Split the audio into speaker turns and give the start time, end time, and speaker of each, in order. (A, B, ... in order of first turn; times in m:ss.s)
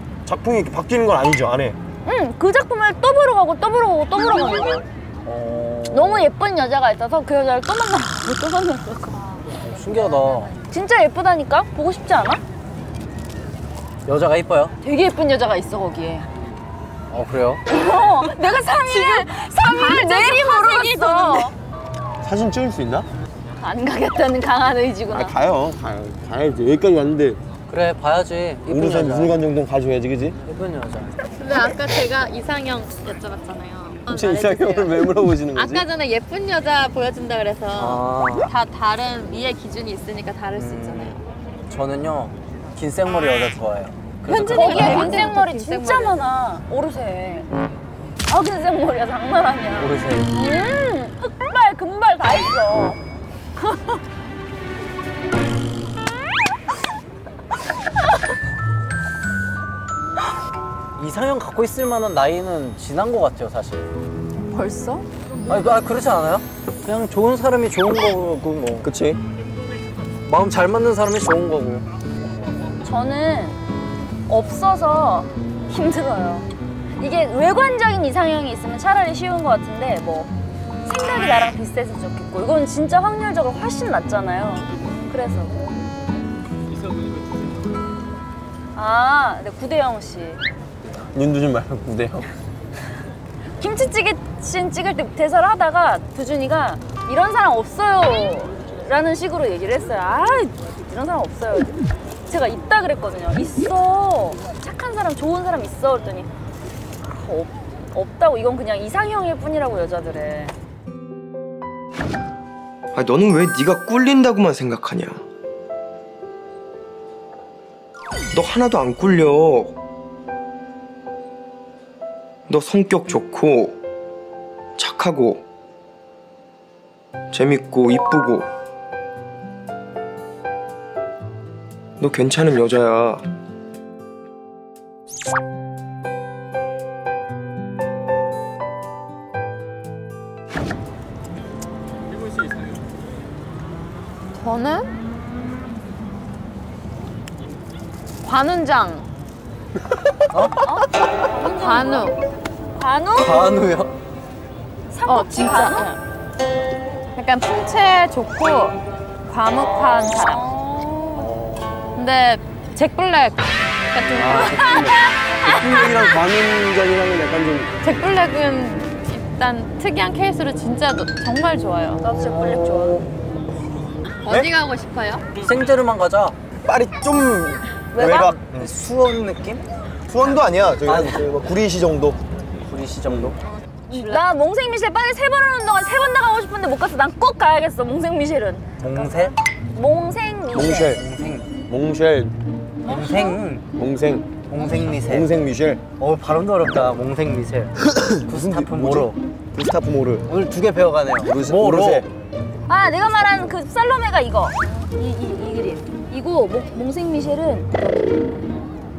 0:00.2-0:01.8 A
0:02.0-0:04.8 B
0:05.2-0:06.3 C
0:05.9-0:09.3 B
0:09.6-0:10.6 C
0:10.7-0:12.4 B
0:14.0-0:14.8 C
0:14.8-0:16.3 B
0:17.1-0:17.6 C
0:17.7-0:21.5 B
0:18.9-0:21.5 D
0:22.2-0:23.0 A
0:23.6-0:25.3 B
0:25.1-0:27.4 A
0:27.7-0:29.4 C
0:28.7-0:30.4 A
0:30.4-0:31.2 C
0:31.4-0:41.2 D
0:34.1-0:35.9 A
0:37.7-0:38.5 C
0:40.6-0:41.2 C
0:41.7-0:45.3 C
0:44.3-0:46.2 D
0:44.3-0:47.5 B
0:48.3-0:53.0 B
0:49.8-0:50.3 C
0:53.6-0:54.0 B
1:01.0-1:03.8 C
1:04.5-1:05.0 D
1:05.5-1:08.9 C
1:08.8-1:09.2 A
1:10.3-1:11.8 C
1:12.8-1:13.6 B
1:14.3-1:20.3 B
1:20.8-1:25.6 B
1:28.7-1:30.4 B
1:31.1-1:32.3 A
1:33.6-1:46.3 B
1:47.0-1:50.5 B
1:52.9-1:55.2 E
1:58.3-1:59.8 E
2:02.5-2:03.8 E
2:04.8-2:05.4 E
2:07.3-2:08.5 E
2:12.0-2:13.2 E
2:24.3-2:24.9 D
2:28.2-2:29.0 D
2:30.3-2:30.6 C
2:30.6-2:32.2 B
2:31.6-2:32.2 D
2:32.8-2:33.5 B
2:33.2-2:33.9 C
2:34.9-2:35.9 B
2:35.0-2:36.0 D
2:37.1-2:40.4 D
2:39.6-2:41.3 B
2:41.2-2:42.0 A
2:41.9-2:44.7 D
2:44.1-2:47.7 A
2:44.3-2:46.1 B
2:47.8-2:52.0 D
2:52.0-2:53.0 B
2:54.2-2:55.2 D
2:54.3-2:54.5 A
2:55.4-2:56.4 C
2:56.6-2:58.7 A
2:57.9-2:58.3 B
2:58.0-2:59.6 C
3:00.1-3:02.2 A
3:00.8-3:01.3 C
3:02.7-3:03.4 C
3:03.1-3:03.3 A
3:03.9-3:08.6 B
3:08.8-3:09.4 C
3:09.7-3:11.0 B
3:10.5-3:11.0 A
3:10.9-3:11.5 C
3:11.6-3:12.3 A
3:12.8-3:13.6 C
3:13.7-3:15.8 A
3:14.5-3:19.2 C
3:18.0-3:20.2 A
3:20.3-3:22.1 C
3:21.2-3:22.1 A
3:22.7-3:28.2 B
3:23.1-3:23.5 C